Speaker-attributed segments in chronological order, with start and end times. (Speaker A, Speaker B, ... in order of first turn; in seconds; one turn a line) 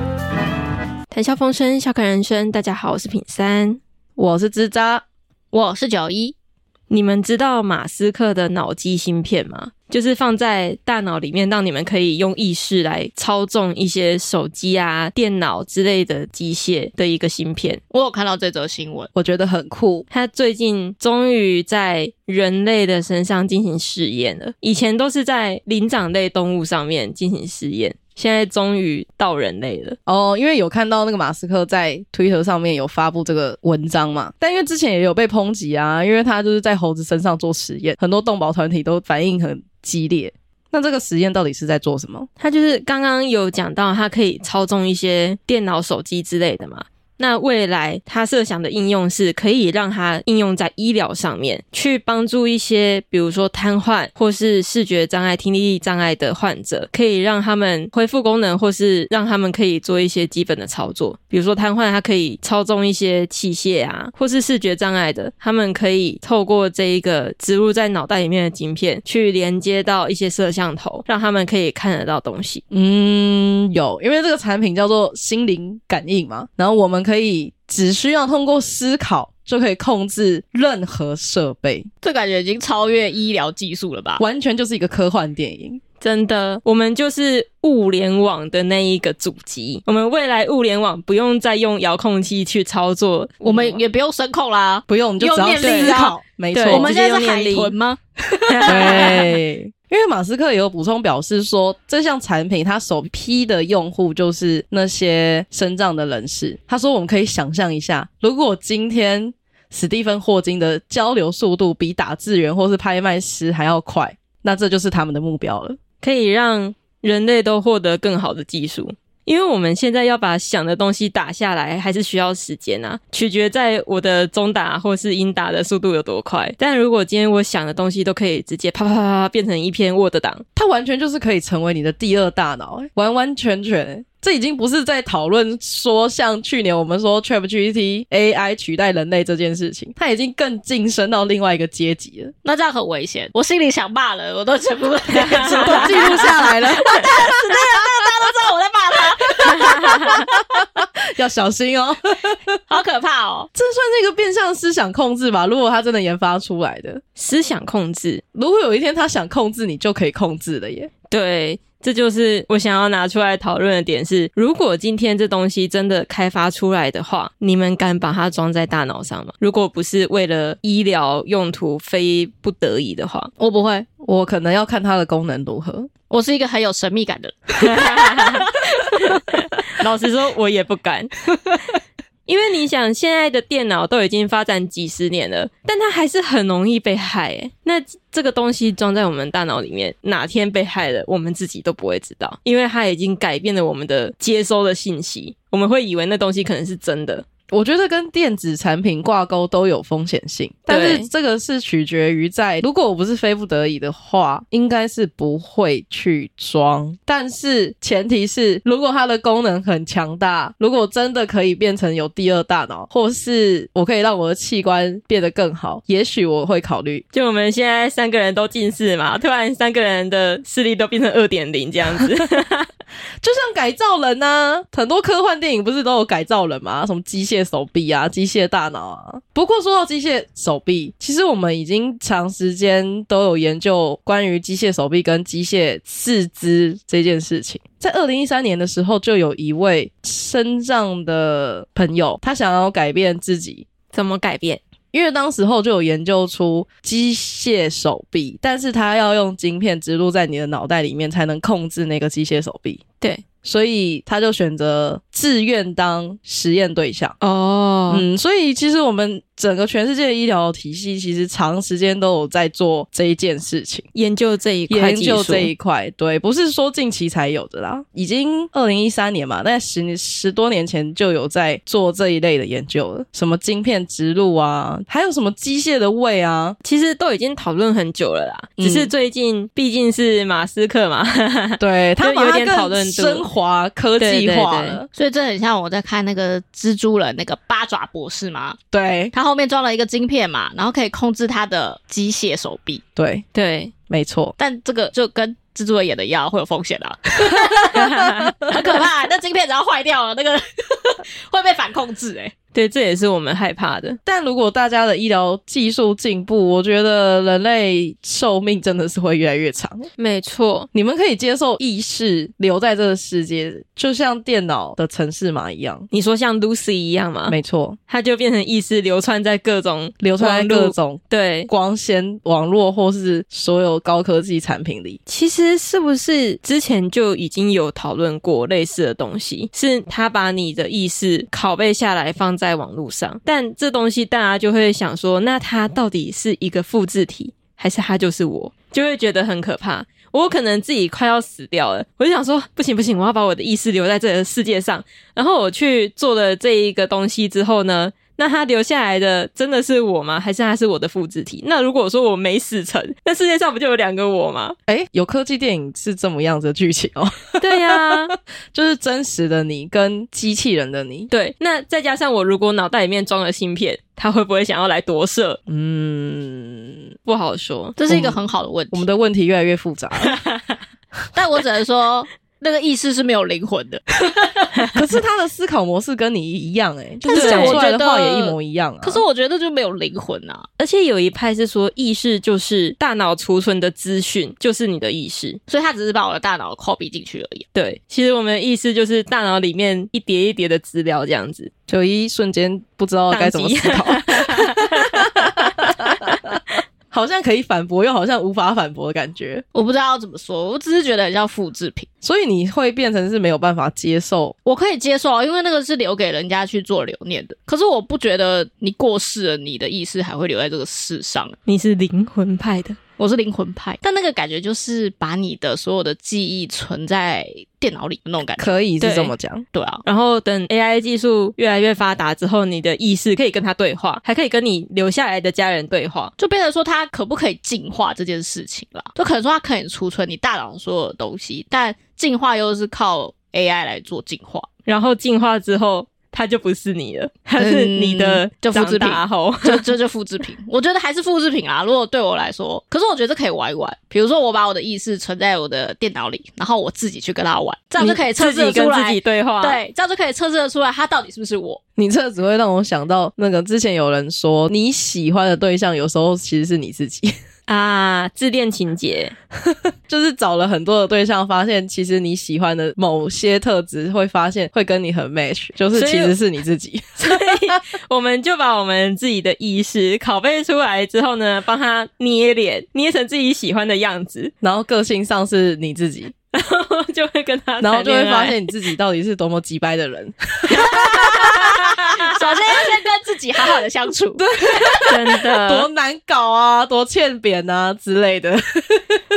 Speaker A: 1.1-3.8
Speaker B: 4.2-5.0
Speaker C: 5.5-6.3
Speaker A: 6.9-17.8
Speaker C: 17.9-19.1
Speaker B: 19.1-20.1
Speaker A: 20.1-30.0
Speaker B: 30.1-42.3
Speaker A: 42.4-72.6
Speaker B: 72.7-81.9
Speaker C: 82.0-84.2
Speaker B: 84.2-85.8
Speaker A: 86.0-93.8
Speaker C: 93.4-99.2
Speaker B: 94.9-96.9
Speaker A: 95.6-96.0
Speaker A: 96.5-97.8
Speaker A: 98.5-99.4
Speaker B: 98.7-115.8
Speaker A: 116.0-130.4
Speaker B: 130.6-142.3
Speaker C: 142.4-149.9
Speaker A: 145.2-146.2
Speaker B: 145.4-147.5
Speaker B: 149.4-152.6
Speaker A: 149.6-150.2
Speaker C: 152.7-153.5
Speaker B: 153.6-157.0
Speaker A: 157.2-158.2
Speaker B: 158.3-160.9
Speaker A: 161.1-173.3
Speaker C: 173.4-173.9
Speaker B: 174.0-175.9
Speaker C: 176.1-179.0
Speaker A: 177.6-181.2
Speaker A: 182.3-197.2
Speaker B: 197.5-217.0
Speaker A: 200.7-201.1
Speaker A: 217.1-222.7
Speaker B: 223.2-243.7
Speaker A: 243.9-244.6
Speaker B: 244.9-252.8
Speaker B: 253.4-257.2
Speaker A: 257.2-258.1
Speaker B: 257.9-263.9
Speaker A: 263.9-265.5
Speaker B: 264.7-276.6
Speaker A: 276.6-283.3
Speaker B: 278.6-278.9
Speaker B: 281.6-284.9
Speaker A: 284.0-284.8
Speaker C: 284.9-288.6
Speaker B: 288.7-289.1
Speaker C: 289.1-292.8
Speaker B: 293.0-293.2
Speaker A: 293.3-293.7
Speaker B: 293.9-294.3
Speaker C: 294.4-297.9
Speaker A: 297.8-298.5
Speaker B: 297.9-298.3
Speaker C: 298.5-302.3
Speaker A: 302.5-304.0
Speaker B: 304.1-309.9
Speaker A: 310.0-310.7
Speaker B: 310.7-315.9
Speaker A: 315.9-317.4
Speaker B: 317.3-317.8
Speaker A: 317.9-321.5
Speaker B: 320.0-325.0
Speaker A: 325.1-354.6
Speaker B: 354.7-358.0
Speaker A: 357.4-358.1
Speaker B: 358.5-361.1
Speaker A: 361.1-365.4
Speaker B: 365.5-366.9
Speaker A: 367.1-367.8
Speaker C: 367.8-368.9
Speaker B: 367.9-368.2
Speaker B: 368.7-370.2
Speaker A: 370.1-370.6
Speaker C: 371.1-374.5
Speaker A: 374.6-374.8
Speaker B: 374.7-379.0
Speaker C: 377.0-380.5
Speaker A: 377.1-377.7
Speaker A: 380.6-385.4
Speaker C: 385.5-387.4
Speaker A: 387.5-391.5
Speaker B: 391.7-396.4
Speaker A: 393.1-395.7
Speaker B: 396.9-399.4
Speaker C: 399.5-401.9
Speaker B: 402.0-404.4
Speaker C: 404.5-411.4
Speaker A: 411.5-412.8
Speaker C: 413.0-418.6
Speaker B: 418.4-419.4
Speaker A: 418.8-419.1
Speaker C: 419.5-419.8
Speaker A: 419.9-426.1
Speaker C: 426.2-434.5
Speaker A: 434.7-439.8
Speaker C: 437.4-451.6
Speaker A: 447.8-449.6
Speaker B: 451.8-457.1
Speaker A: 457.5-459.1
Speaker B: 459.9-467.6
Speaker A: 465.7-466.2
Speaker A: 467.0-474.3
Speaker B: 474.4-476.1
Speaker A: 476.3-478.5
Speaker B: 477.6-481.9
Speaker A: 480.5-482.3
Speaker C: 481.9-484.2
Speaker B: 484.2-489.0
Speaker A: 484.7-485.7